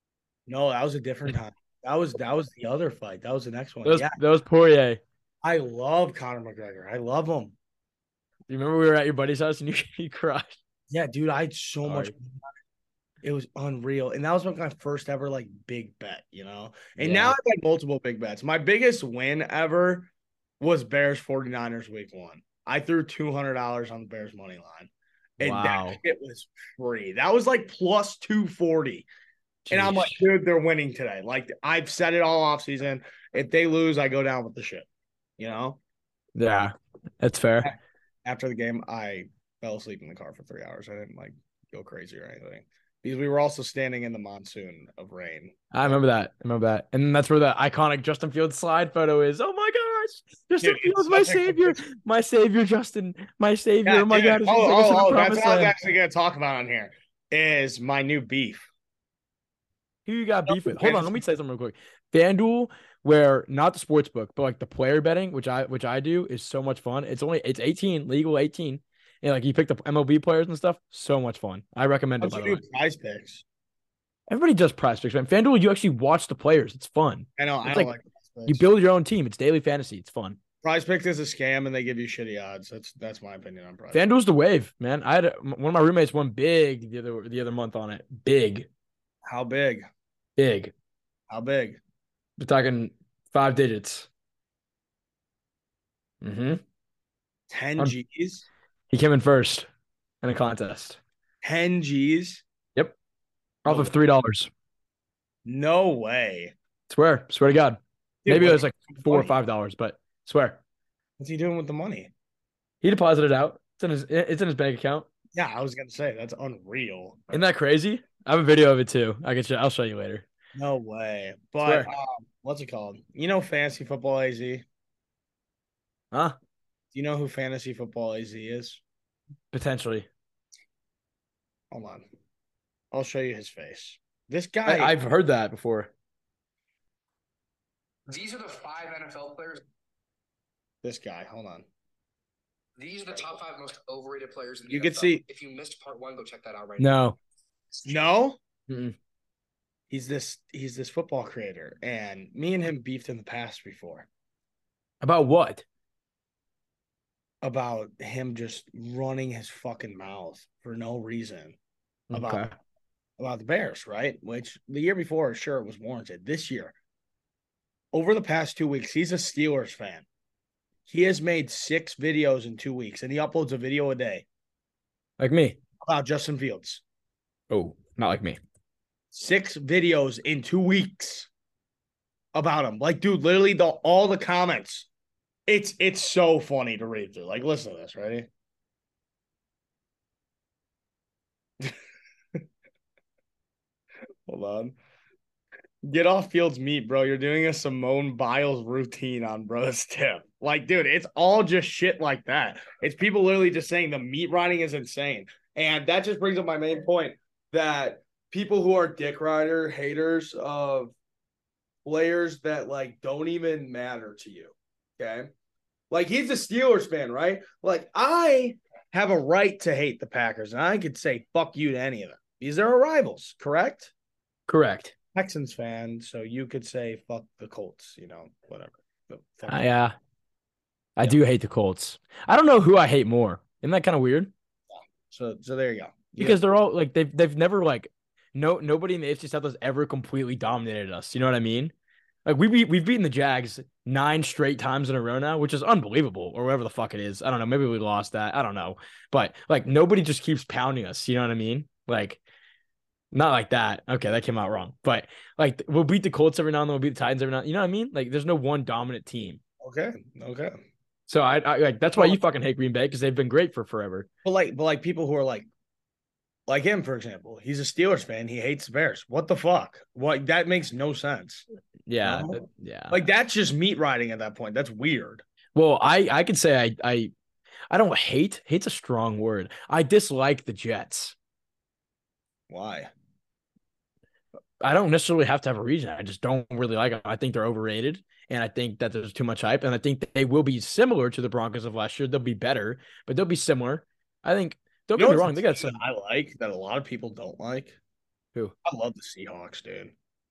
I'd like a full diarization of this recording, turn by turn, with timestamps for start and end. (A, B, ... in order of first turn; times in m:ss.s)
0:00.5-0:04.2 A
0:03.8-0:05.0 B
0:05.4-0:07.6 A
0:08.5-0:10.6 B
0:10.9-0:12.4 A
0:11.8-0:12.1 B
0:13.2-0:29.1 A
0:17.0-0:17.4 B
0:25.4-0:26.0 B
0:29.6-0:30.2 B
0:29.7-0:34.9 A
0:35.4-0:35.8 A
0:36.4-0:37.7 B
0:37.6-0:46.0 A
0:45.7-0:55.7 B
0:50.6-0:51.8 A
0:53.8-0:58.6 A
1:00.1-1:12.6 B
1:00.5-1:01.2 A
1:12.2-1:13.4 A
1:14.3-1:17.9 B
1:17.4-1:18.7 A
1:18.5-1:20.4 B
1:20.6-1:24.0 A
1:23.9-1:28.7 B
1:29.3-1:29.9 A
1:30.4-1:30.7 B
1:31.3-1:31.8 A
1:32.4-1:34.1 B
1:36.2-1:36.6 B
1:37.5-1:38.5 A
1:38.9-1:39.7 B
1:40.2-1:41.0 B
1:41.4-1:42.4 A
1:43.6-1:43.9 A
1:43.6-1:44.5 B
1:45.4-1:46.5 A
1:46.9-1:50.6 B
1:48.2-1:49.3 A
1:51.2-1:52.1 A
1:52.8-1:55.1 B
1:55.4-1:57.4 A
1:57.3-2:00.3 B
2:00.6-2:04.6 A
2:01.6-2:01.9 B
2:06.1-2:06.4 B
2:06.9-2:08.8 A
2:09.5-2:10.1 B
2:11.7-2:12.1 A
2:12.9-2:15.0 A
2:14.6-2:15.9 B
2:18.1-2:19.6 C
2:20.8-2:21.7 A
2:22.8-2:27.0 C
2:24.7-2:25.2 A
2:26.8-2:27.2 B
2:27.8-2:28.4 A
2:28.7-2:29.0 B
2:29.9-2:34.1 A
2:35.0-2:35.6 B
2:37.4-2:41.6 A
2:42.1-2:42.5 B
2:42.1-2:42.5 A
2:43.2-2:46.8 A
2:47.9-2:50.1 A
2:50.9-2:54.3 A
2:55.2-2:55.6 B
2:55.8-2:56.8 A
2:57.5-2:58.4 B
2:59.1-3:01.3 A
3:02.3-3:04.9 A
3:05.5-3:08.3 A
3:14.3-3:14.8 A
3:15.9-3:30.9 A
3:31.8-3:35.3 A
3:35.9-3:43.9 A
3:44.5-3:45.0 B
3:45.2-3:49.6 A
3:49.5-3:50.0 B
3:51.0-3:54.3 B
3:54.7-3:56.4 A
3:56.2-4:01.7 B
4:02.2-4:12.2 B
4:13.1-4:19.4 B
4:19.6-4:20.6 A
4:21.1-4:24.1 B
4:21.9-4:22.2 A
4:24.2-4:25.5 A
4:26.5-4:31.5 A
4:31.9-4:33.0 B
4:32.0-4:35.2 A
4:35.6-4:37.1 B
4:37.7-4:41.2 B
4:42.5-4:42.9 A
4:44.6-4:55.8 B
4:55.0-4:57.8 A
4:58.6-4:59.9 A